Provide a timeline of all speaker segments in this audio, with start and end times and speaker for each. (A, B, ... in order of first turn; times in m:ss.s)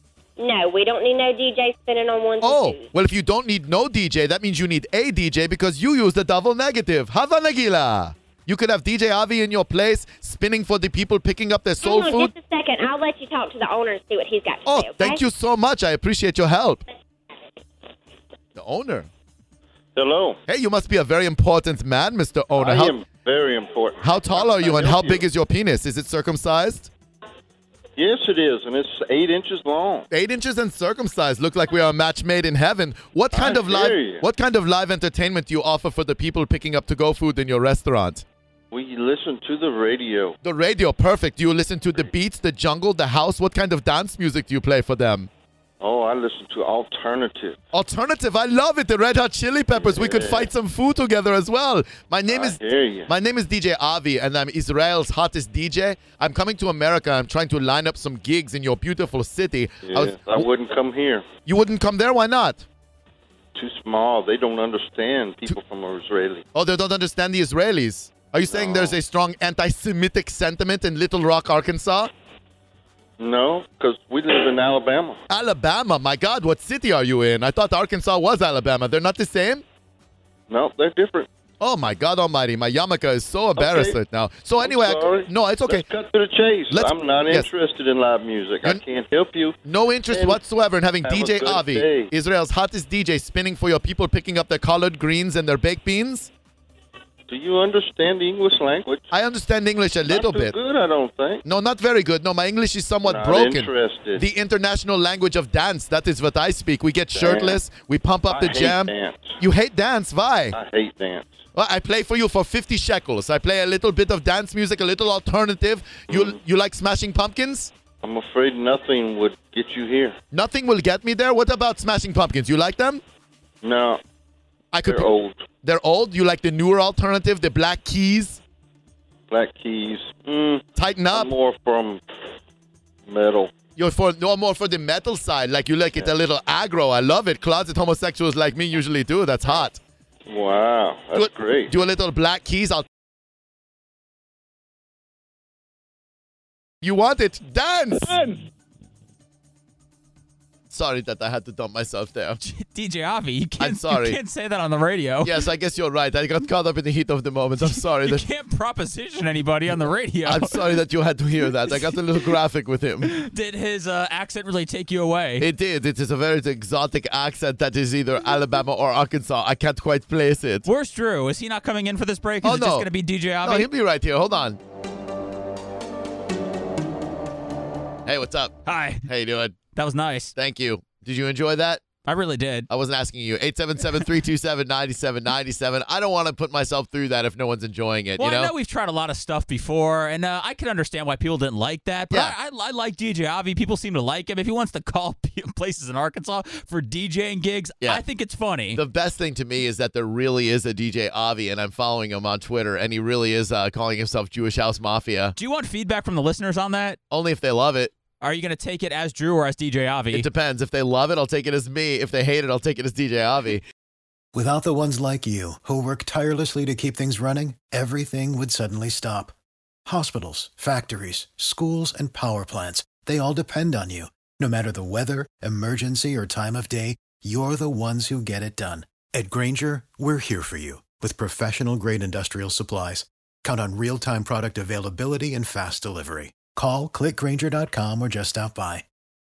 0:00.4-0:02.9 A
0:02.4-0:12.3 B
0:11.8-0:15.2 A
0:14.7-0:16.8 B
0:18.6-0:19.1 B
0:20.0-0:20.4 C
0:20.5-0:23.0 B
0:22.6-0:25.2 C
0:24.0-0:26.9 B
0:28.0-0:30.1 C
0:30.1-0:38.2 B
0:33.3-0:34.2 C
0:38.7-0:40.4 C
0:40.4-0:45.3 B
0:45.8-0:47.6 C
0:47.7-1:00.5 B
0:49.7-0:50.5 C
0:52.3-0:53.1 C
0:59.8-1:01.2 C
1:01.5-1:02.7 B
1:03.6-1:06.4 C
1:06.5-1:12.1 B
1:08.5-1:09.0 C
1:13.2-1:15.2 C
1:15.3-1:19.6 B
1:20.5-1:21.3 C
1:21.6-1:25.8 B
1:23.6-1:24.0 C
1:24.6-1:29.6 C
1:26.7-1:27.5 B
1:29.6-1:36.3 B
1:30.1-1:30.4 C
1:31.0-1:32.1 C
1:37.3-1:39.1 C
1:39.1-1:40.6 B
1:40.0-1:41.4 C
1:41.4-1:50.6 B
1:43.0-1:44.2 C
1:47.2-1:47.6 C
1:48.3-1:49.4 C
1:50.5-1:51.4 C
1:51.6-1:57.7 B
1:56.1-1:56.4 C
1:58.0-2:00.2 C
2:00.3-2:03.0 B
2:03.6-2:04.0 C
2:04.7-2:08.4 B
2:04.8-2:05.4 C
2:09.3-2:12.0 C
2:10.8-2:11.3 B
2:13.1-2:13.5 C
2:13.8-2:19.8 B
2:20.3-2:21.7 C
2:21.2-2:22.9 B
2:26.8-2:28.3 B
2:30.7-2:32.4 B
2:32.4-2:35.3 D
2:33.6-2:34.2 B
2:35.2-2:38.2 B
2:37.6-2:40.6 D
2:40.3-2:43.2 B
2:43.0-2:45.5 D
2:45.4-2:50.7 B
2:50.7-2:53.7 D
2:52.4-2:52.9 B
2:53.4-2:54.6 B
2:58.1-2:59.6 B
2:58.7-2:59.1 D
2:59.8-3:00.3 D
3:00.4-3:01.9 B
3:02.0-3:02.7 D
3:02.7-3:08.5 B
3:08.2-3:18.8 D
3:18.7-3:25.4 B
3:25.4-3:27.0 D
3:27.1-3:27.9 B
3:28.2-3:30.3 D
3:30.1-3:33.6 B
3:34.3-3:39.3 E
3:39.9-3:58.8 E